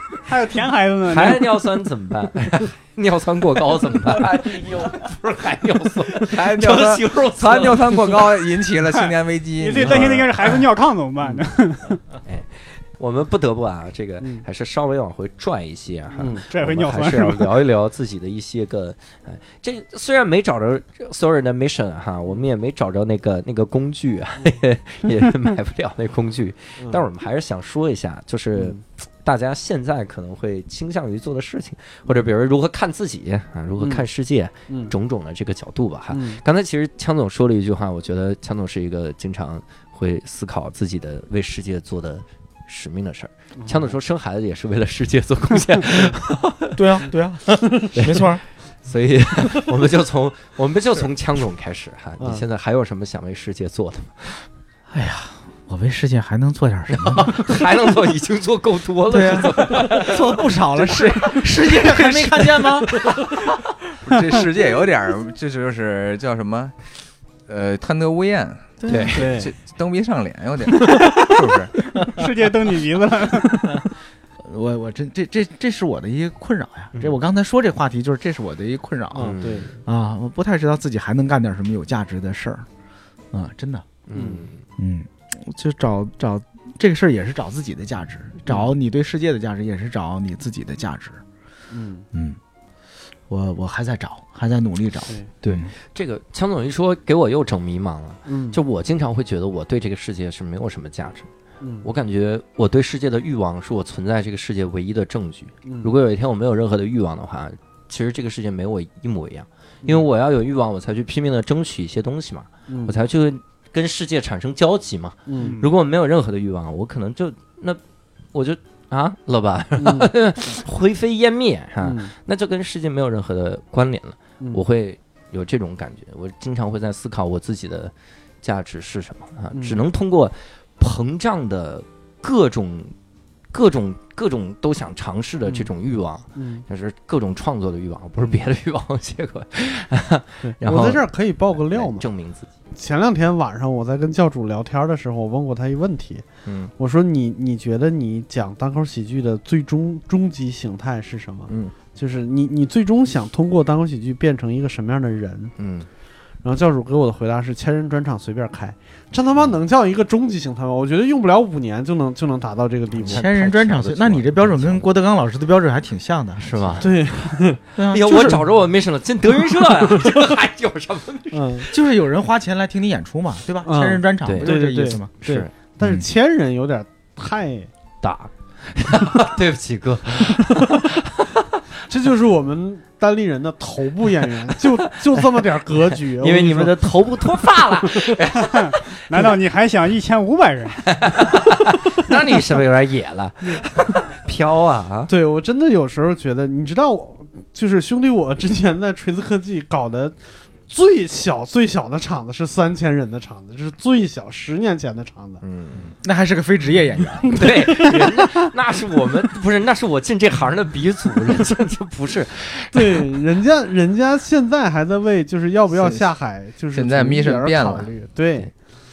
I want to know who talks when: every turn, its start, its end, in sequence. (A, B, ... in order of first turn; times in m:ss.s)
0:00.3-0:01.7 A
0:01.1-0:08.3 B
0:06.2-0:10.5 C
0:08.9-0:12.0 A
0:09.8-0:10.2 D
0:12.2-0:46.8 B
0:16.2-0:16.4 D
0:16.5-0:17.6 A
0:26.8-0:27.0 D
0:28.6-0:28.8 D
0:33.8-0:34.1 D
0:34.7-0:34.9 D
0:36.1-0:36.4 D
0:43.6-0:44.0 D
0:46.8-0:48.4 E
0:48.0-0:48.3 B
0:48.8-0:54.4 B
0:54.9-0:57.6 E
0:56.9-1:02.0 B
0:59.1-1:03.1 E
1:04.0-1:06.9 C
1:07.5-1:11.7 C
1:08.8-1:09.3 E
1:08.9-1:09.2 B
1:09.2-1:09.5 D
1:12.0-1:13.9 A
1:14.4-1:22.7 E
1:19.1-1:19.7 D
1:19.2-1:19.7 B
1:23.3-1:23.8 E
1:24.1-1:24.6 B
1:24.1-1:24.4 D
1:24.8-1:31.2 E
1:31.7-1:32.1 D
1:32.1-1:32.4 E
1:33.3-1:35.7 E
1:35.4-1:41.3 B
1:38.3-1:38.6 D
1:41.6-1:41.9 D
1:41.8-1:57.8 B
1:45.6-1:45.9 D
1:52.7-1:53.0 D
1:55.3-1:55.6 D
1:55.4-1:55.7 A
1:58.3-2:12.9 B
1:59.8-2:00.1 D
2:01.8-2:02.1 D
2:09.5-2:09.8 D
2:13.5-2:22.5 B
2:16.4-2:16.6 D
2:20.4-2:22.1 D
2:22.7-2:26.2 D
2:26.4-2:26.7 B
2:26.8-2:35.6 D
2:31.5-2:31.8 B
2:35.6-2:35.9 B
2:36.4-2:43.3 D
2:43.0-2:44.9 B
2:43.0-2:46.9 E
2:46.4-2:47.3 B
2:46.8-2:47.6 D
2:47.8-2:48.4 E
2:47.9-2:51.7 B
2:49.7-2:50.2 D
2:51.3-2:51.7 D
2:51.7-2:55.1 E
2:53.6-2:57.7 D
2:54.2-2:54.5 B
2:55.2-2:55.5 B
2:55.8-2:56.1 E
2:58.0-3:01.5 B
3:01.9-3:08.2 D
3:04.9-3:05.2 B
3:06.2-3:09.3 B
3:08.4-3:10.9 A
3:10.9-3:15.1 B
3:15.1-3:25.4 D
3:25.4-3:25.9 B
3:26.0-3:27.3 E
3:27.4-3:33.0 B
3:32.7-3:38.5 D
3:36.7-3:37.9 C